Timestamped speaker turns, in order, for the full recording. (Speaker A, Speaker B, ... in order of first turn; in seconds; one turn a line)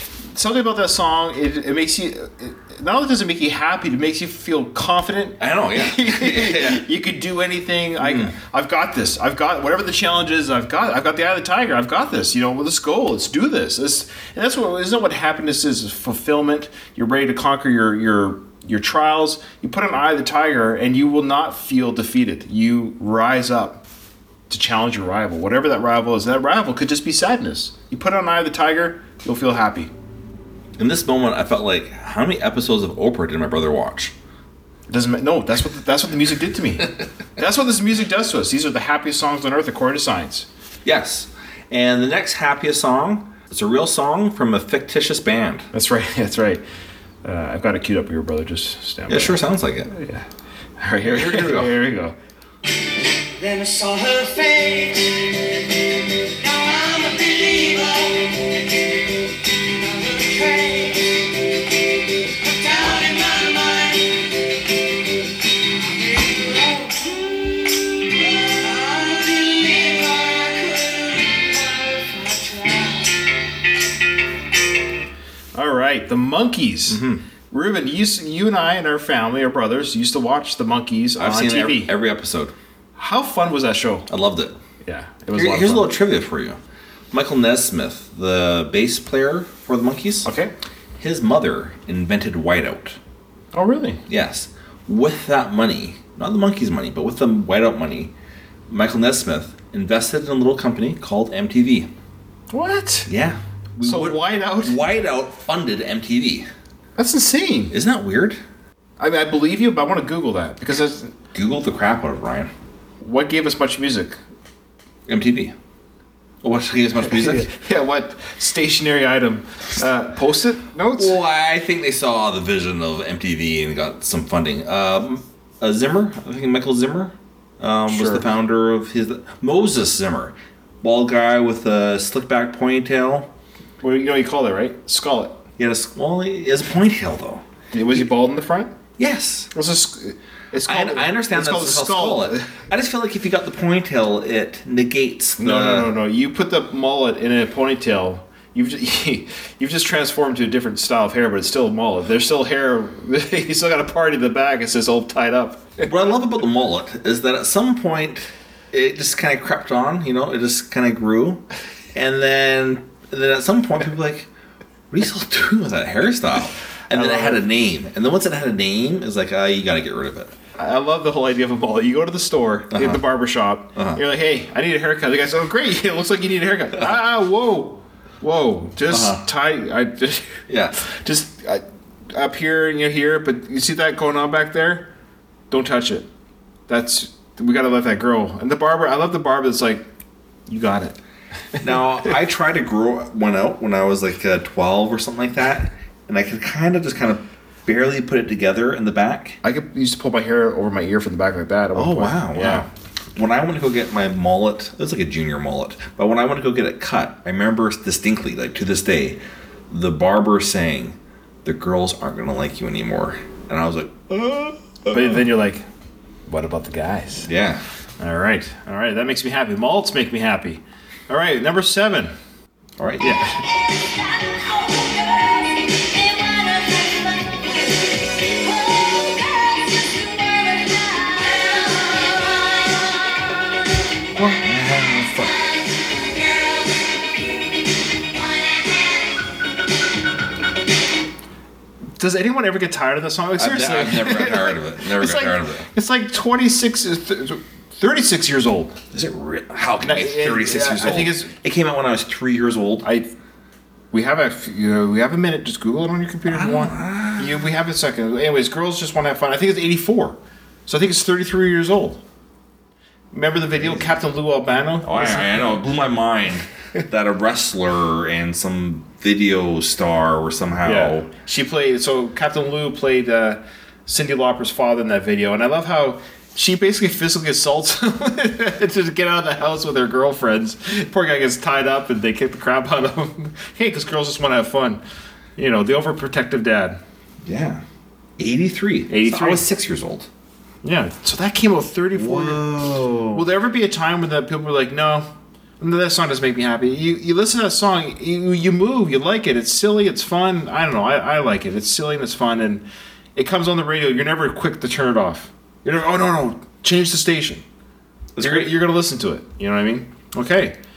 Speaker A: 0.3-23.8
Speaker B: 5.4-6.8
Speaker B: 8.0-8.3
Speaker A: 24.5-29.9
Speaker B: 30.8-34.1
Speaker A: 34.9-40.5
Speaker B: 40.8-45.7
Speaker A: 45.7-46.6
Speaker A: 47.2-50.2
Speaker B: 49.1-49.9
Speaker A: 50.8-52.1
Speaker B: 51.0-51.7
Speaker C: 53.4-55.3
Speaker C: 56.4-58.3
Speaker C: 59.7-61.3
Speaker C: 62.4-64.0
Speaker C: 65.8-67.2
Speaker C: 67.7-73.2
Speaker A: 75.5-81.9
Speaker B: 76.9-77.2
Speaker B: 81.2-82.5
Speaker A: 83.0-84.1
Speaker B: 84.1-84.5
Speaker A: 84.8-85.9
Speaker B: 85.3-86.6
Speaker B: 87.1-90.3
Speaker A: 90.2-90.5
Speaker B: 91.0-93.0
Speaker A: 93.5-94.0
Speaker B: 94.1-98.1
Speaker B: 98.7-101.9
Speaker A: 102.5-103.1
Speaker B: 103.1-106.5
Speaker A: 103.8-104.8
Speaker A: 107.0-107.7
Speaker B: 107.7-108.4
Speaker A: 109.0-111.1
Speaker B: 111.3-112.5
Speaker A: 113.0-114.2
Speaker B: 115.1-115.5
Speaker B: 116.4-117.5
Speaker A: 117.0-121.2
Speaker B: 121.0-133.3
Speaker A: 127.9-128.3
Speaker A: 133.8-135.3
Speaker B: 135.6-137.4
Speaker A: 137.7-138.7
Speaker B: 139.0-139.5
Speaker A: 139.5-142.5
Speaker B: 140.7-145.9
Speaker A: 145.4-155.9
Speaker B: 155.8-161.4
Speaker B: 161.9-164.3
Speaker B: 164.9-170.3
Speaker A: 166.9-167.4
Speaker A: 170.6-184.9
Speaker B: 172.7-173.0
Speaker B: 173.7-174.0
Speaker B: 178.9-179.2
Speaker B: 180.5-180.7
Speaker A: 185.5-186.1
Speaker A: 186.7-189.8
Speaker A: 190.5-191.0
Speaker B: 191.6-199.4
Speaker A: 199.4-202.7
Speaker B: 201.7-215.2
Speaker A: 214.9-215.7
Speaker A: 216.3-217.3
Speaker B: 217.2-217.6
Speaker A: 218.0-222.1
Speaker B: 222.8-223.1
Speaker A: 223.0-223.4
Speaker C: 223.9-227.5
Speaker C: 228.2-233.3
Speaker B: 234.1-235.5
Speaker C: 236.0-237.0
Speaker C: 238.2-238.6
Speaker A: 242.0-248.8
Speaker B: 243.4-245.7
Speaker B: 248.9-252.8
Speaker A: 249.8-251.3
Speaker A: 252.8-253.1
Speaker A: 253.9-262.0
Speaker B: 256.3-257.4
Speaker A: 263.1-265.6
Speaker B: 264.8-271.1
Speaker A: 270.6-284.8
Speaker A: 285.4-286.8
Speaker B: 287.2-287.6
Speaker B: 288.2-290.1
Speaker A: 288.9-289.4
Speaker A: 290.6-292.6
Speaker B: 291.9-293.2
Speaker A: 293.1-295.1
Speaker A: 295.6-302.6
Speaker A: 303.1-307.4
Speaker B: 308.1-308.5
Speaker A: 308.2-310.5